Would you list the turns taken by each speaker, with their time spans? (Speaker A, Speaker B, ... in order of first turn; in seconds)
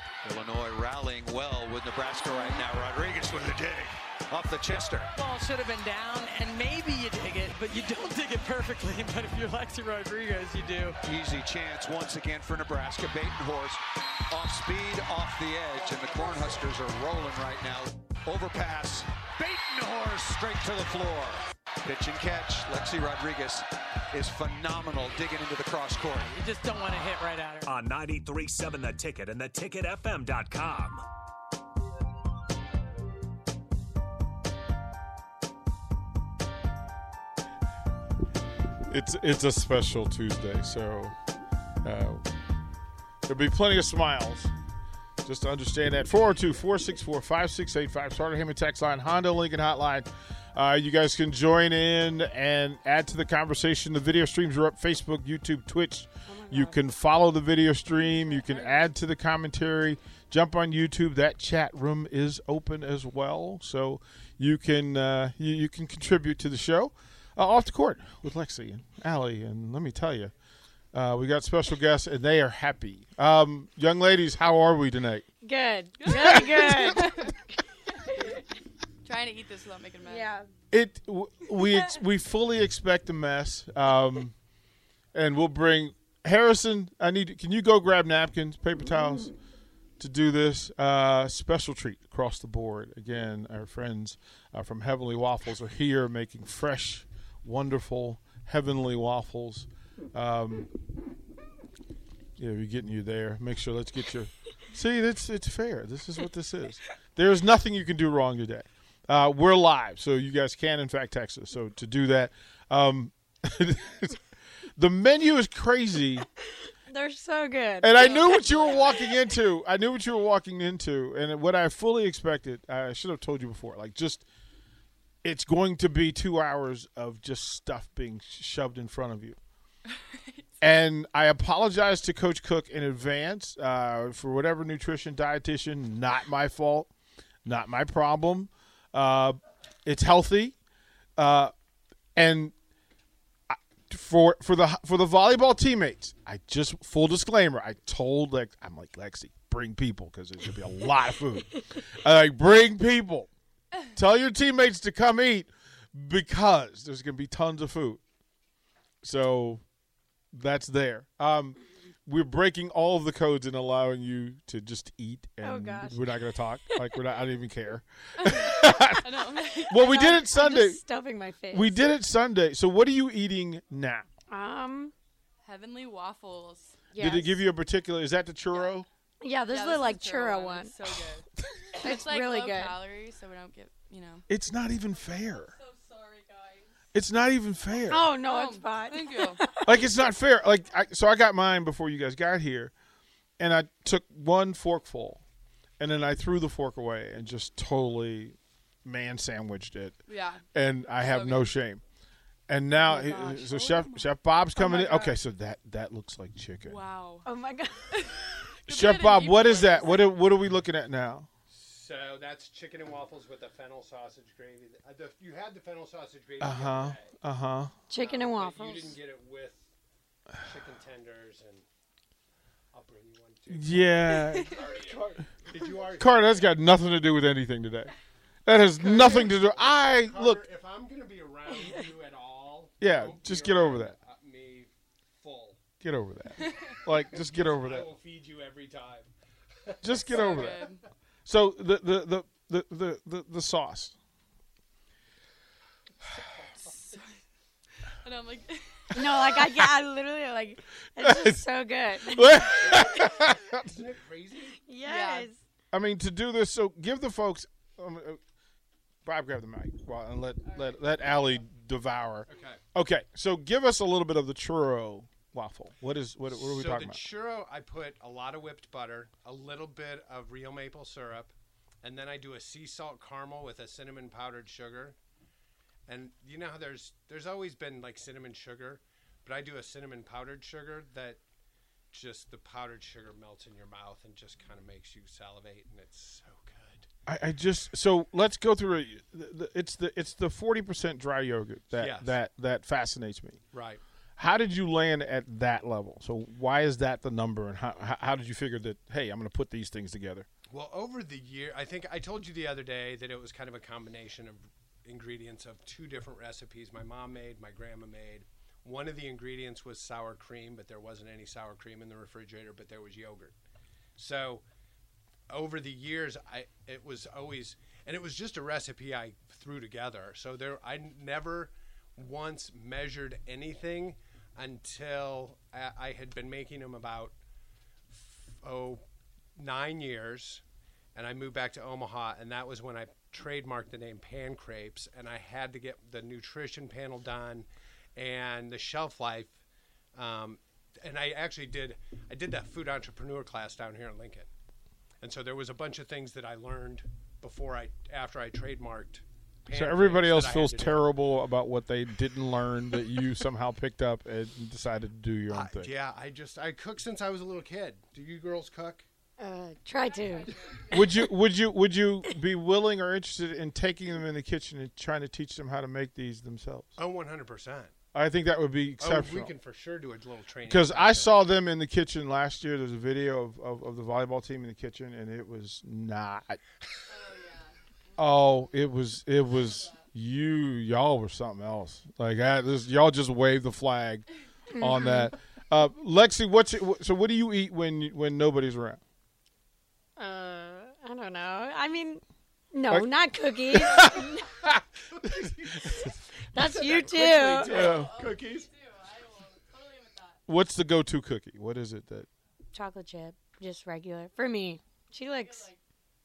Speaker A: 0.2-5.1, 11.0-26.3
Speaker B: 5.2-11.0, 26.3-27.8
Speaker C: 27.6-31.0
Speaker D: 38.9-41.1, 41.8-42.3, 43.2-44.5, 45.2-70.3, 70.9-75.3, 76.0-77.1, 80.7-84.3, 85.1-89.3, 90.0-100.7, 102.4-114.2, 114.8-116.3, 117.8-124.3, 125.2-129.4, 130.6-136.9, 137.4-140.6, 141.2-141.5, 142.2-142.5, 143.5-153.3, 153.9-158.0, 159.0-159.6, 160.3-170.8, 171.5-174.1, 177.0-178.9, 184.3-185.6, 186.9-188.1, 189.6-192.7, 193.4-195.2, 195.8-200.0, 200.5-201.8, 202.5-206.8, 208.7-211.3, 216.4-217.8, 223.5-224.8, 225.8-227.9, 228.5-230.4, 232.8-234.0, 235.8-237.9, 239.8-240.7, 241.3-244.0, 251.0-251.5, 252.0-253.8, 255.7-258.2, 259.0-267.1, 287.1-293.4, 294.2-300.3, 349.5-355.7, 360.7-366.8, 367.9-369.3, 370.4-376.4, 378.0-388.8, 393.5-395.9, 397.4-398.1, 400.3-402.1
Speaker E: 56.3-56.8, 75.4-77.4, 80.0-80.5, 116.9-118.4, 165.4-166.0, 169.7-171.8, 174.3-174.9, 176.9-177.4, 179.2-180.7, 181.8-182.8, 187.9-189.7, 207.2-208.4, 217.9-219.0, 248.9-252.8, 254.7-255.4, 359.2-360.4, 384.5-385.1, 390.0-392.0, 392.5-394.3, 396.3-397.5, 402.5-405.5
Speaker F: 58.5-58.8, 76.0-77.4, 79.0-80.3, 118.0-119.0, 130.0-130.4, 168.2-170.2, 175.4-176.8, 179.5-184.3, 185.3-186.8, 188.2-189.4, 200.1-200.4, 201.0-201.5, 202.9-205.2, 206.7-207.3, 207.9-210.2, 236.4-236.7, 240.1-240.8, 246.6-247.2, 248.0-249.2, 254.8-255.3, 359.9-360.7, 376.9-378.1, 379.5-379.8, 397.2-400.2, 405.1-405.6
Speaker G: 211.5-217.1, 218.0-219.7, 220.4-221.7, 222.7-226.5, 228.8-235.6, 236.5-240.8, 246.2-246.8, 252.6-254.6, 262.3-262.6, 266.3-275.0, 275.9-281.2, 281.9-286.9, 291.8-292.1, 293.5-293.8, 300.5-313.4, 314.0-314.4, 315.3-327.1, 327.9-328.8, 329.4-330.4, 330.9-339.4, 339.9-344.3, 345.0-350.9, 355.3-358.9, 366.8-367.7, 368.8-371.2, 395.0-398.5